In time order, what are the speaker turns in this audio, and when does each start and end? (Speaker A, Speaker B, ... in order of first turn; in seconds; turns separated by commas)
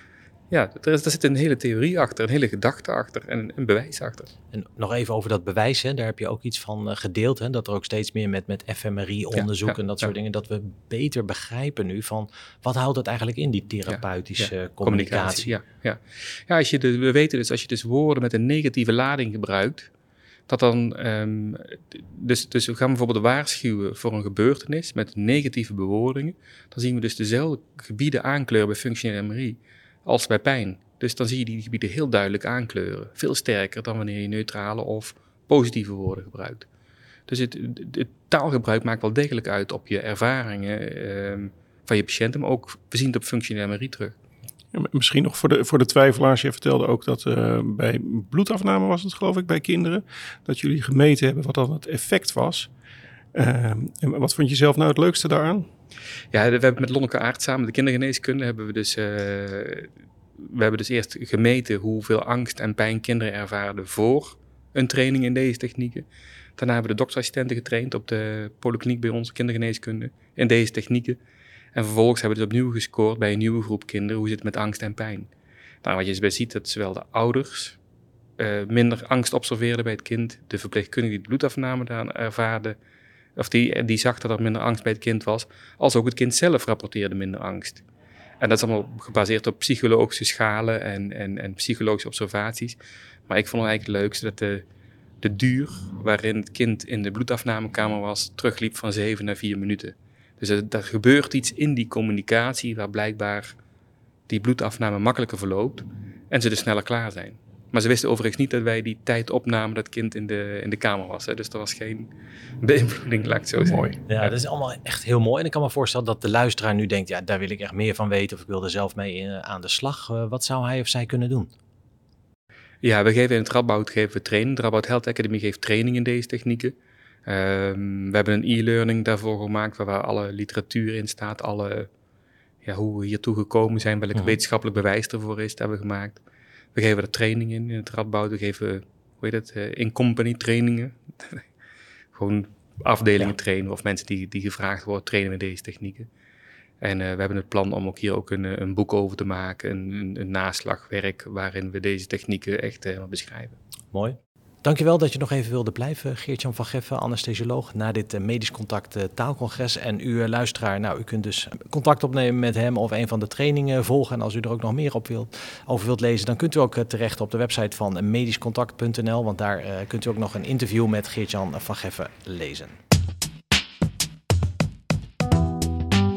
Speaker A: 0.5-4.3, Speaker B: 4.5-15.6, Speaker A: 9.3-9.8, Speaker A: 13.9-19.9, Speaker A: 20.5-36.7, Speaker A: 37.3-44.2, Speaker C: 44.7-52.7, Speaker C: 53.3-55.7, Speaker A: 56.3-66.1, Speaker A: 66.6-71.2, Speaker A: 71.7-75.3, Speaker A: 75.8-77.8, Speaker A: 78.4-82.8, Speaker A: 83.4-87.8, Speaker A: 88.4-94.6, Speaker A: 95.2-103.6, Speaker A: 104.3-112.1, Speaker A: 112.6-113.9, Speaker C: 113.6-114.0, Speaker B: 114.1-121.5, Speaker A: 122.8-126.7, Speaker A: 127.3-131.9, Speaker A: 132.6-136.2, Speaker A: 136.7-141.5, Speaker A: 142.1-146.1, Speaker A: 146.8-153.6, Speaker B: 153.9-172.8